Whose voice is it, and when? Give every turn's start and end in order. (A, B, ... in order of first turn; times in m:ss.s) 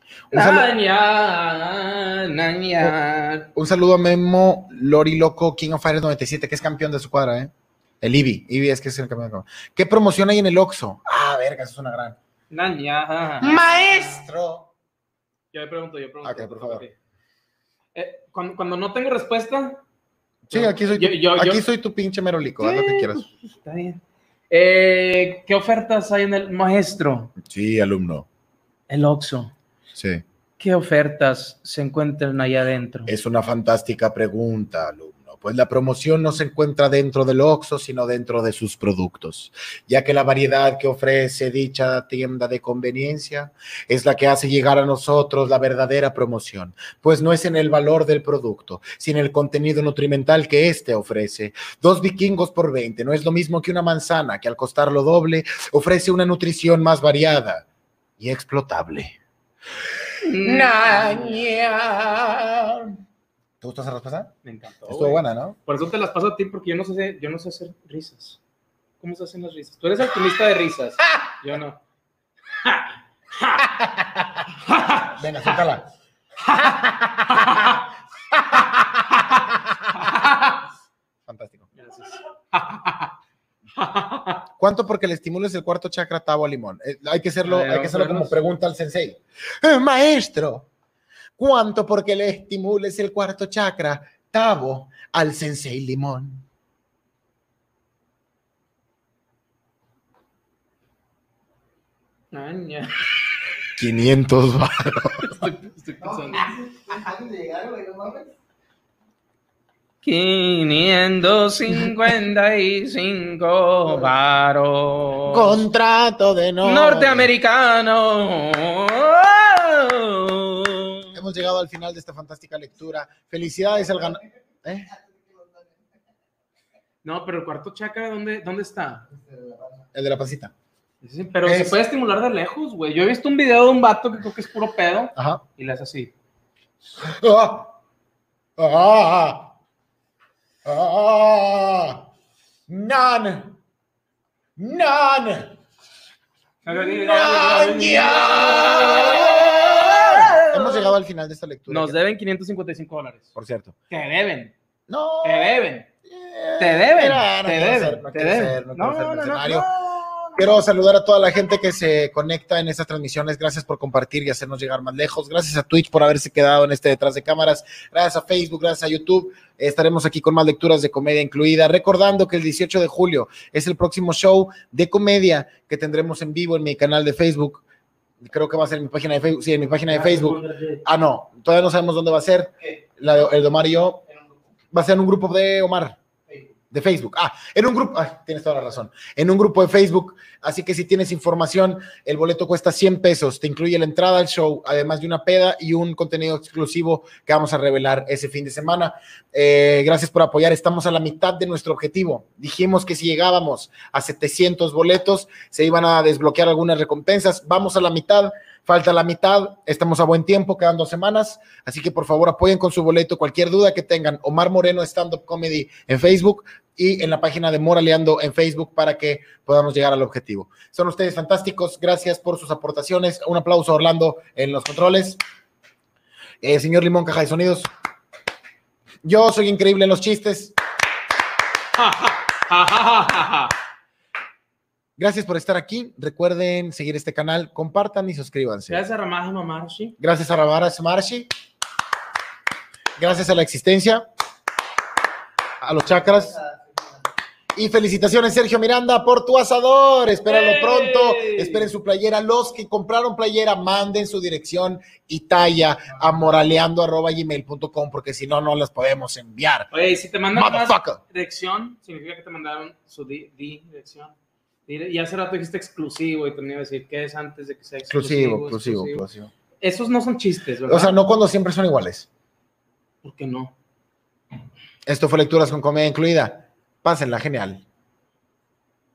0:00.3-0:00.7 A
0:00.3-0:03.5 B
0:03.6-0:12.2 A
0:12.5-0:14.2 B
0:13.4-0:14.7 A
0:15.5-0:16.9 B
0:16.2-0:16.9 A
0:17.9-0:19.8 B
0:20.5-0:21.6 B
0:20.5-0:23.3 A
0:22.6-0:27.3 B
0:27.4-0:28.3 A
0:28.9-0:29.5 B
0:30.0-0:30.2 A
0:30.6-0:33.1 B
0:33.1-0:57.6 A
0:58.2-0:59.2 A
1:00.2-1:01.5 B
1:00.4-1:03.0 A
1:03.6-1:04.3 A
1:04.4-1:08.4 B
1:04.9-1:05.6 A
1:09.0-1:11.8 B
1:12.6-1:13.7 B
1:13.8-1:14.4 A
1:14.6-1:15.6 B
1:15.1-1:15.9 A
1:16.5-1:17.8 B
1:16.6-1:20.3 A
1:19.2-1:20.7 B
1:21.3-1:21.7 A
1:21.8-1:23.1 B
1:23.8-1:24.4 B
1:24.6-1:30.7 A
1:27.4-1:28.4 B
1:31.4-1:36.4 A
1:42.3-1:43.0 B
1:43.8-1:45.5 A
1:45.2-1:46.5 B
1:46.0-1:48.3 C
1:50.0-1:55.6 B
1:55.3-1:57.3 A
1:56.6-2:01.2 B
2:01.2-2:04.9 A
2:04.8-2:05.9 C
2:07.0-2:09.1 B
2:09.1-2:09.9 C
2:09.9-2:10.5 A
2:11.0-2:16.1 B
2:11.4-2:11.8 A
2:15.2-2:15.4 A
2:17.0-2:17.7 A
2:18.6-2:19.5 A
2:20.6-2:22.1 A
2:22.7-2:23.6 A
2:24.6-2:25.6 A
2:26.6-2:30.9 B
2:26.7-2:32.0 A
2:31.7-2:33.3 B
2:33.4-2:33.8 A
2:33.9-2:34.5 B
2:34.9-2:39.7 A
2:35.2-2:35.9 B
2:36.6-2:40.6 B
2:40.4-2:57.6 A
2:58.2-3:04.0 A
2:59.9-3:00.8 B
3:04.7-3:06.0 A
3:06.7-3:45.2 A
3:46.4-3:47.7 A
3:49.0-3:50.6 A
3:51.8-3:53.5 B
3:55.0-3:58.8 A
3:58.7-4:00.0 B
4:00.0-4:01.3 A
4:03.0-4:04.1 A
4:05.6-4:06.4 A
4:05.9-4:07.0 C
4:07.6-4:19.7 A
4:10.3-4:11.7 B
4:19.7-4:24.2 B
4:20.3-4:21.0 A
4:24.7-4:29.0 B
4:27.9-4:29.3 A
4:29.6-4:31.0 B
4:30.7-4:32.1 A
4:33.0-4:33.5 B
4:34.9-4:37.6 A